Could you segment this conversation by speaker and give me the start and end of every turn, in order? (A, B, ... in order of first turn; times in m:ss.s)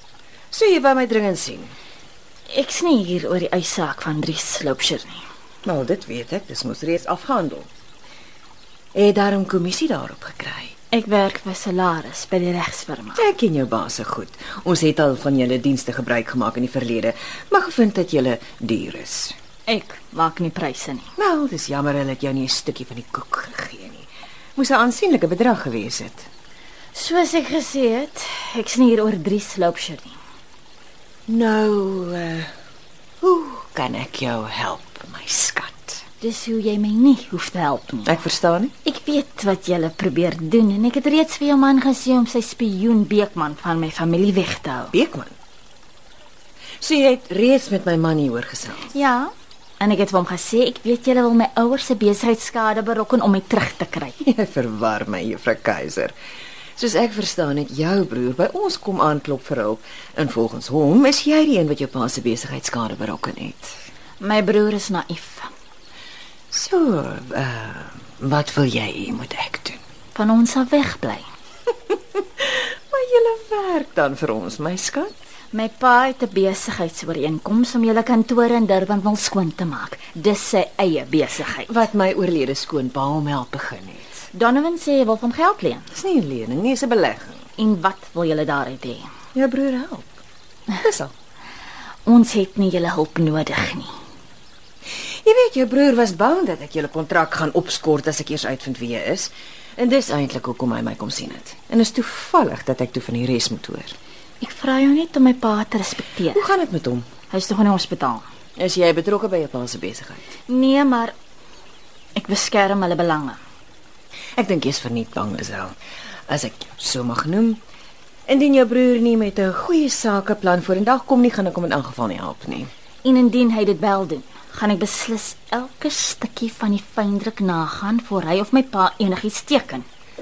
0:00.5-0:01.8 A
0:02.5-0:05.2 B
0:05.6-0:07.7 A
0:08.9-0:10.8 A
0:10.9-0:13.3 B
0:13.2-0:19.4 A
0:19.7-0:21.1 B
0:21.2-0:26.3 A
0:26.9-0:30.2 B
0:31.3-0:32.5 A
0:33.2-0:36.0 A
0:36.2-0:38.2 B
0:38.0-0:38.7 A
0:38.8-0:45.0 B
0:44.9-0:45.4 A
0:46.8-0:49.0 A
0:48.9-0:54.2 B
0:54.2-0:56.1 A
0:56.8-1:03.8 A
1:04.2-1:05.5 B
1:06.5-1:09.8 A
1:10.2-1:11.3 B
1:12.2-1:15.1 A
1:15.5-1:21.8 B
1:21.7-1:24.2 A
1:24.3-1:25.9 B
1:25.9-1:27.5 A
1:27.6-1:29.1 B
1:29.3-1:30.2 A
1:30.8-1:31.1 A
1:32.1-1:33.9 B
1:35.0-1:44.0 A
1:44.4-1:46.4 B
1:46.3-1:47.1 A
1:47.3-1:48.2 B
1:48.6-1:50.3 A
1:50.5-1:51.2 B
1:52.2-1:53.4 B
1:54.4-1:55.7 A
1:56.3-1:57.6 A
1:58.3-2:02.7 A
2:03.0-2:09.9 B